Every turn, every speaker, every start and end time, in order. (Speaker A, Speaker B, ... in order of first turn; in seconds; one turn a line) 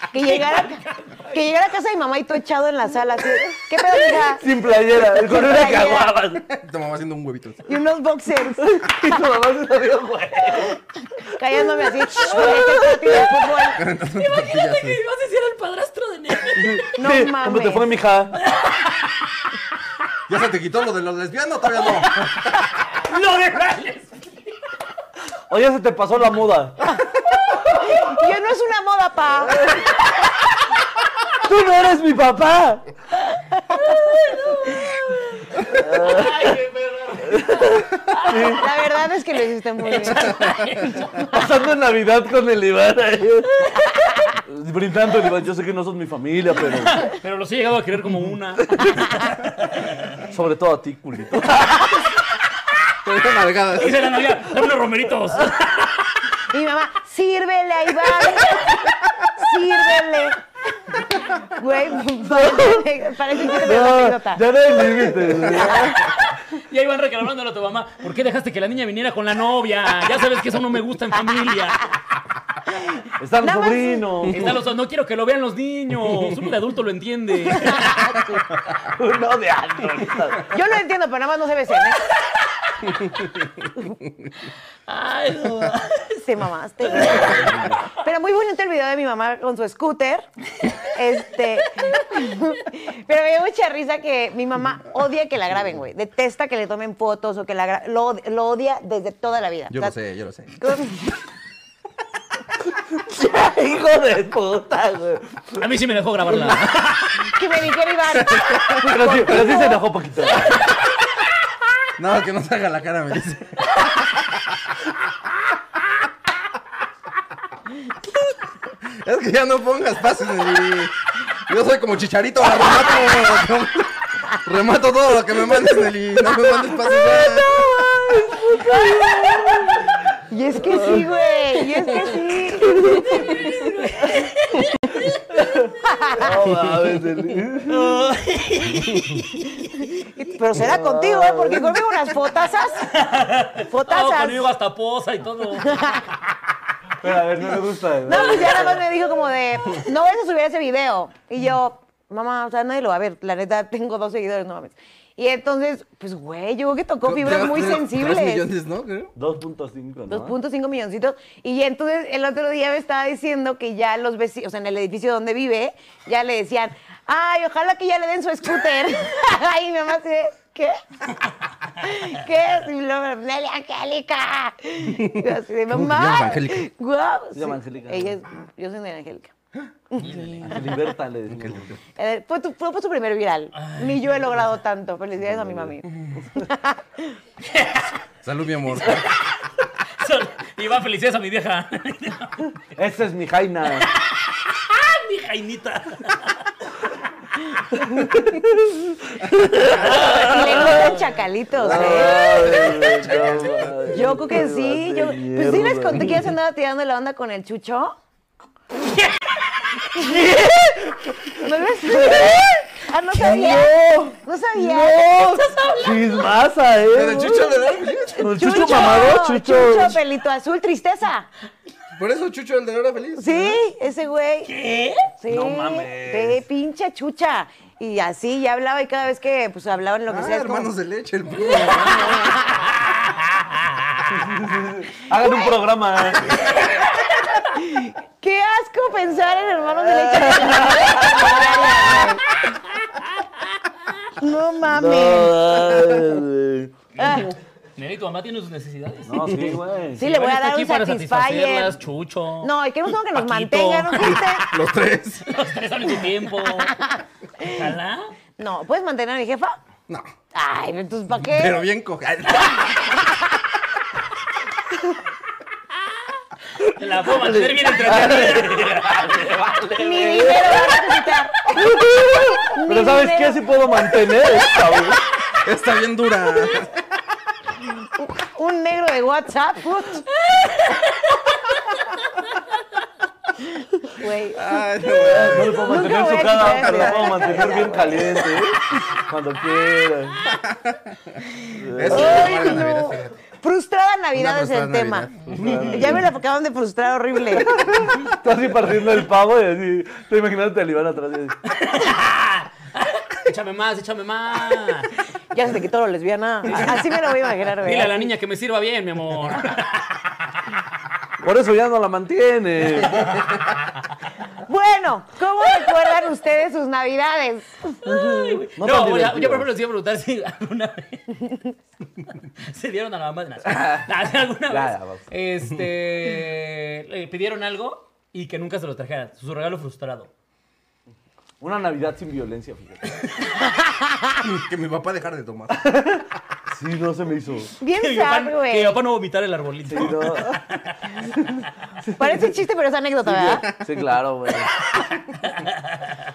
Speaker A: 0.1-4.5
Speaker B: 0.2-0.6
Speaker C: 4.1-6.4
Speaker A: 5.0-6.1
Speaker D: 6.4-7.7
Speaker A: 7.7-8.7
Speaker C: 8.6-10.8
Speaker A: 11.2-13.8
Speaker C: 12.1-13.3
Speaker D: 13.8-15.0
Speaker B: 14.1-16.9
Speaker C: 16.6-18.4
Speaker A: 17.0-17.9
Speaker B: 18.4-19.1
Speaker D: 20.3-22.5
Speaker B: 21.8-22.3
Speaker B: 22.9-24.5
Speaker C: 25.5-26.8
Speaker A: 27.6-29.8
Speaker C: 31.4-32.9
Speaker B: 34.4-38.6
Speaker C: 35.7-36.6
Speaker C: 37.2-38.7
Speaker A: 38.4-40.4
Speaker B: 39.8-41.3
Speaker D: 40.2-41.0
Speaker C: 41.2-43.7
Speaker C: 44.3-47.1
Speaker B: 46.7-50.2
Speaker C: 50.3-52.0
Speaker D: 53.0-54.1
Speaker B: 53.8-56.3
Speaker A: 56.5-64.4
Speaker B: 58.2-58.8
Speaker C: 62.2-62.9
Speaker C: 63.4-66.2
Speaker B: 65.6-72.0
Speaker A: 72.9-74.2
Speaker C: 73.2-74.6
Speaker B: 74.3-78.2
Speaker A: 77.6-78.4
Speaker C: 78.9-80.5
Speaker A: 80.5-82.0
Speaker B: 82.2-82.8
Speaker D: 82.9-84.3
Speaker B: 84.9-86.3
Speaker A: 86.2-99.9
Speaker B: 86.9-87.8
Speaker C: 87.2-87.7
Speaker D: 99.7-100.6
Speaker A: 100.6-101.2
Speaker C: 102.7-105.6
Speaker B: 105.6-107.3
Speaker C: 106.3-106.6
Speaker A: 107.2-109.8
Speaker D: 108.2-108.8
Speaker C: 108.8-110.7
Speaker D: 112.0-114.4
Speaker D: 118.8-128.3
Speaker C: 126.8-130.0
Speaker A: 128.6-129.5
Speaker A: 130.3-133.3
Speaker C: 130.6-131.1
Speaker C: 132.7-133.5
Speaker B: 132.9-135.7
Speaker C: 135.3-138.1
Speaker A: 135.8-136.3
Speaker B: 137.7-140.3
Speaker A: 140.2-142.9
Speaker C: 140.5-141.8
Speaker B: 142.8-146.4
Speaker A: 143.7-144.4
Speaker A: 145.6-146.0
Speaker C: 147.0-148.8
Speaker A: 148.1-158.4
Speaker B: 148.1-148.7
Speaker D: 157.0-159.1
Speaker C: 159.2-160.4
Speaker A: 160.1-170.8
Speaker A: 171.8-179.3
Speaker D: 174.9-176.7
Speaker C: 177.3-178.2
Speaker B: 180.0-180.6
Speaker C: 180.0-181.7
Speaker D: 181.3-181.8
Speaker A: 182.0-187.2
Speaker B: 183.6-184.4
Speaker C: 185.2-185.7
Speaker B: 187.4-188.0
Speaker D: 188.2-189.1
Speaker B: 188.8-189.3
Speaker B: 189.9-192.6
Speaker C: 192.8-193.9
Speaker B: 193.8-196.8
Speaker C: 197.9-201.0
Speaker B: 199.7-201.1
Speaker A: 199.9-202.2
Speaker C: 201.5-206.3
Speaker D: 202.2-204.0
Speaker B: 202.3-202.9
Speaker A: 203.9-207.9
Speaker B: 208.8-209.7
Speaker C: 209.9-217.6
Speaker A: 211.4-213.7
Speaker A: 214.2-215.1
Speaker B: 215.1-216.3
Speaker D: 216.9-218.3
Speaker C: 218.1-220.0
Speaker A: 218.2-221.3
Speaker D: 221.9-223.6
Speaker A: 223.2-224.5
Speaker B: 224.5-225.1
Speaker A: 225.2-230.7
Speaker C: 225.3-226.4
Speaker D: 230.1-232.7
Speaker A: 231.4-232.7
Speaker B: 231.4-232.2
Speaker B: 232.8-234.1
Speaker C: 234.1-236.5
Speaker A: 235.2-235.5
Speaker A: 237.5-242.2
Speaker C: 239.7-241.6
Speaker B: 241.0-243.0
Speaker A: 244.2-245.8
Speaker C: 244.6-246.7
Speaker A: 247.0-247.3
Speaker B: 247.0-252.5
Speaker C: 249.1-250.0
Speaker A: 250.0-251.8
Speaker A: 252.4-254.5
Speaker B: 253.1-254.4
Speaker D: 254.0-255.3
Speaker B: 255.2-256.8
Speaker A: 256.4-257.7
Speaker B: 257.4-258.1
Speaker A: 258.4-259.6
Speaker A: 260.3-261.6
Speaker D: 261.2-263.0
Speaker A: 262.6-263.3
Speaker B: 266.6-269.2
Speaker C: 267.0-270.8
Speaker A: 269.8-273.9
Speaker C: 271.5-275.0
Speaker D: 275.4-276.8
Speaker A: 277.8-280.1
Speaker B: 280.2-281.2
Speaker A: 283.8-284.4
Speaker D: 284.3-287.8
Speaker C: 284.9-290.2
Speaker A: 285.3-288.3
Speaker D: 290.2-293.2
Speaker C: 291.6-292.4
Speaker A: 291.9-297.6
Speaker D: 294.1-296.0
Speaker C: 295.3-296.1
Speaker C: 297.4-301.4
Speaker B: 301.5-304.9
Speaker A: 305.3-308.1
Speaker B: 306.5-306.9
Speaker B: 307.6-310.1
Speaker C: 311.2-313.2
Speaker A: 314.4-317.8
Speaker B: 317.8-321.4
Speaker C: 317.9-319.5
Speaker B: 322.3-330.1
Speaker C: 323.4-323.9
Speaker C: 324.5-325.1
Speaker C: 331.4-332.9
Speaker A: 333.4-334.2
Speaker D: 334.2-335.7
Speaker C: 335.6-337.5
Speaker A: 337.6-338.8
Speaker B: 337.7-341.0
Speaker C: 339.7-340.4
Speaker C: 340.9-342.4
Speaker A: 342.0-343.5
Speaker C: 343.1-344.5
Speaker D: 343.2-343.9
Speaker B: 345.1-346.0